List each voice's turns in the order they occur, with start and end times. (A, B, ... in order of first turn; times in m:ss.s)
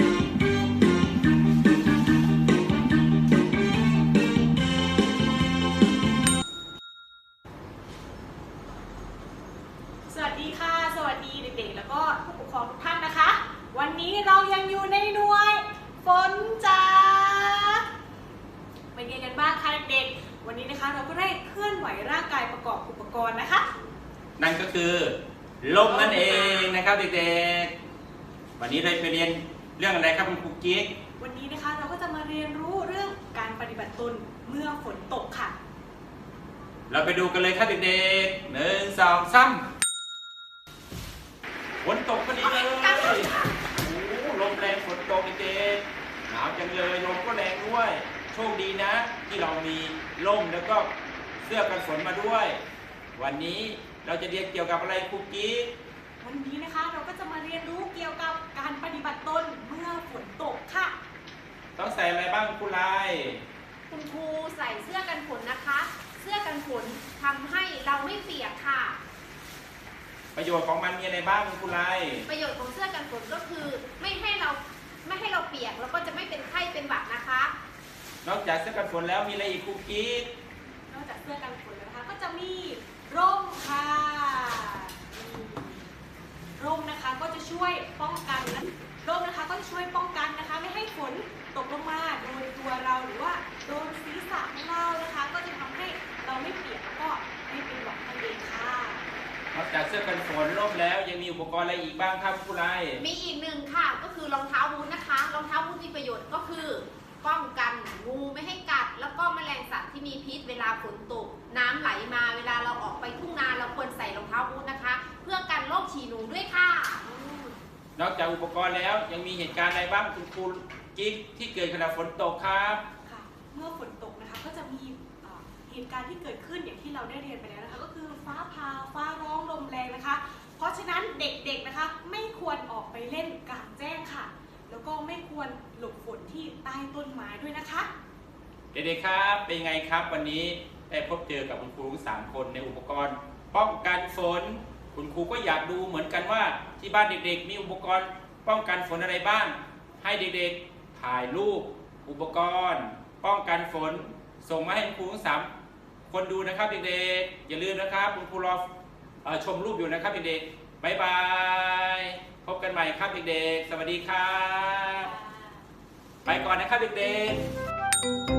0:10.1-0:17.8 A
0:18.9-0:23.7 A
0:24.4-0:27.7 B
0:25.8-0:26.8 A
0:28.6-0:30.9 B
0:31.2-0:35.6 A
0:36.9-0:39.6 B
0:41.8-0:52.6 B
0:42.4-0:43.5 C
0:53.2-0:55.7 B
0:56.2-1:01.0 A
1:01.8-1:03.4 B
1:03.9-1:09.0 C
1:10.4-1:12.3 B
1:12.3-1:17.5 C
1:18.2-1:20.3 B
1:20.9-1:25.8 A
1:26.6-1:39.1 A
1:39.5-1:43.0 B
1:43.0-1:57.0 C
1:57.0-1:57.6 A
1:58.0-2:02.8 B
2:03.0-2:17.9 A
2:18.7-2:35.5 B
2:36.1-2:38.7 B
2:39.2-2:45.1 B
2:45.0-2:45.6 A
2:46.2-2:47.4 B